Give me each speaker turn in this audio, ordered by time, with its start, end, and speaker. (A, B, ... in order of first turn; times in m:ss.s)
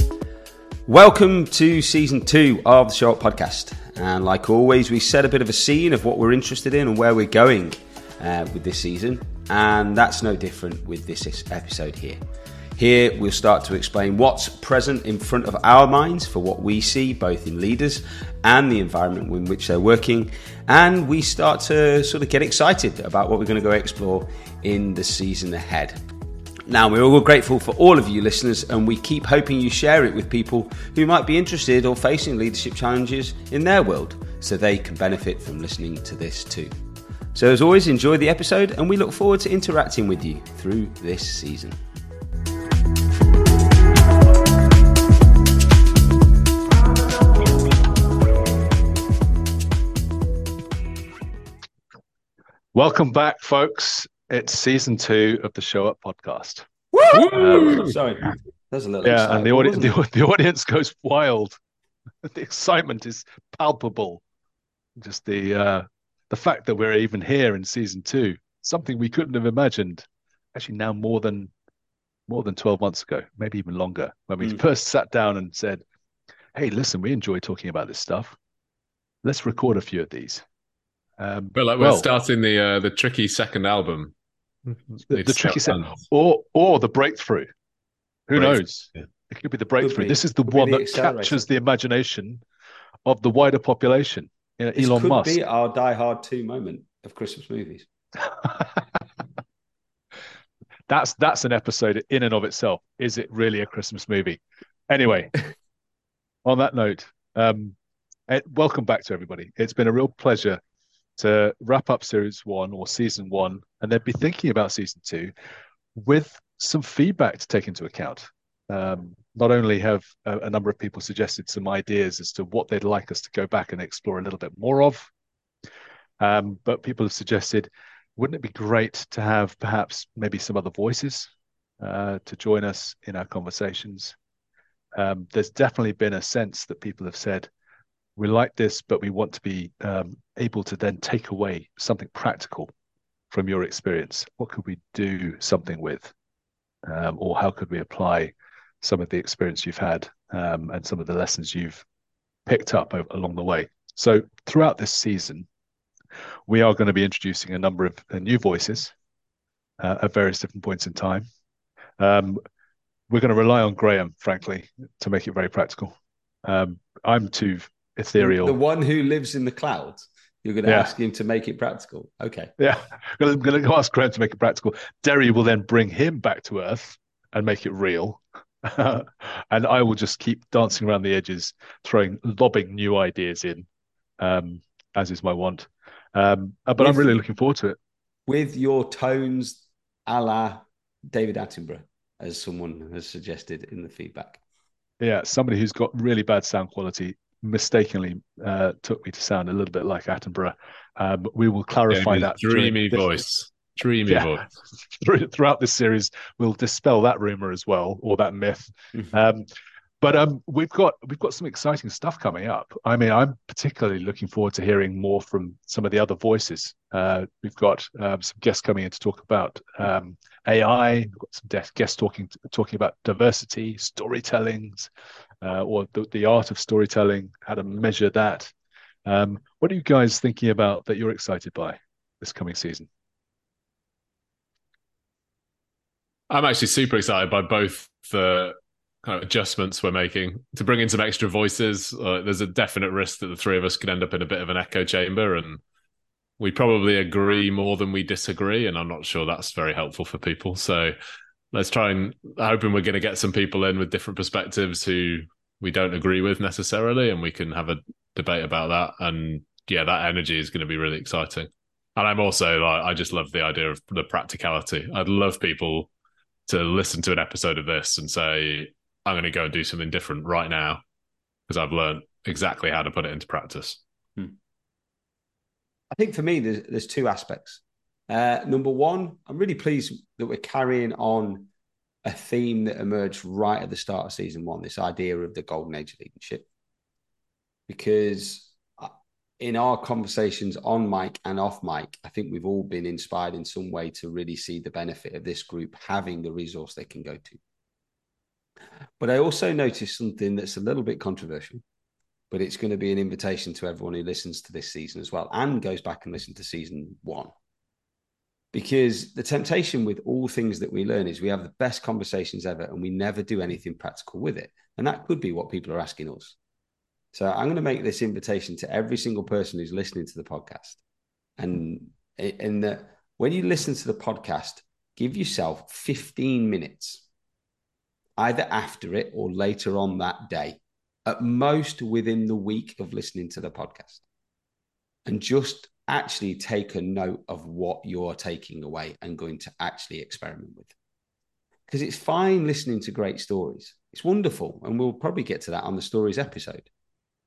0:00.9-0:12.2 A
0:12.8-0:26.0 A
0:26.7-0:36.7 A
0:37.3-0:41.8 A
0:52.7-0:56.7 B
0:56.9-0:59.9 A
0:57.2-0:57.9 B
0:59.0-1:01.6 B
1:02.2-1:04.2 B
1:05.0-1:11.5 B
1:12.3-1:15.8 B
1:16.5-1:18.4 B
1:19.2-1:20.4 B
1:21.2-1:22.1 B
1:21.5-1:24.1 C
1:24.7-1:25.9 C
1:25.1-1:27.5 B
1:28.3-1:32.4 B
1:28.4-1:29.0 C
1:29.8-1:31.4 A
1:33.0-1:35.4 B
1:34.8-1:37.9 A
1:40.9-1:45.3 B
1:46.4-1:47.7 B
1:48.3-1:50.6 B
1:51.2-1:55.3 B
1:56.0-2:05.1 B
2:06.2-2:14.1 B
2:15.0-2:17.5 B
2:18.2-2:22.7 B
2:23.3-2:26.1 B
2:26.8-2:31.8 B
2:32.4-2:35.4 B
2:36.5-2:38.9 B
2:39.8-2:41.2 B
2:42.0-2:42.4 B
2:43.1-2:48.6 B
2:48.2-2:52.5 A
2:50.6-2:50.9 B
2:52.6-3:03.6 B
3:04.2-3:07.8 B
3:06.8-3:07.2 A
3:08.3-3:14.4 A
3:15.0-3:23.1 B
3:21.9-3:24.5 C
3:24.1-3:24.3 B
3:24.9-3:29.5 B
3:30.0-3:44.9 B
3:45.4-3:48.5 B
3:49.0-3:52.9 B
3:56.3-4:05.6 C
4:06.4-4:11.0 C
4:11.5-4:25.9 C
4:26.5-4:30.8 C
4:31.5-4:33.8 C
4:35.9-4:41.5 A
4:42.0-4:46.5 A
4:47.7-4:57.4 A
4:59.0-5:01.6 A
5:02.3-5:07.3 A
5:08.5-5:16.4 A
5:17.1-5:20.8 A
5:21.4-5:27.0 A
5:28.2-5:34.0 A
5:35.0-5:40.7 A
5:41.7-5:46.7 A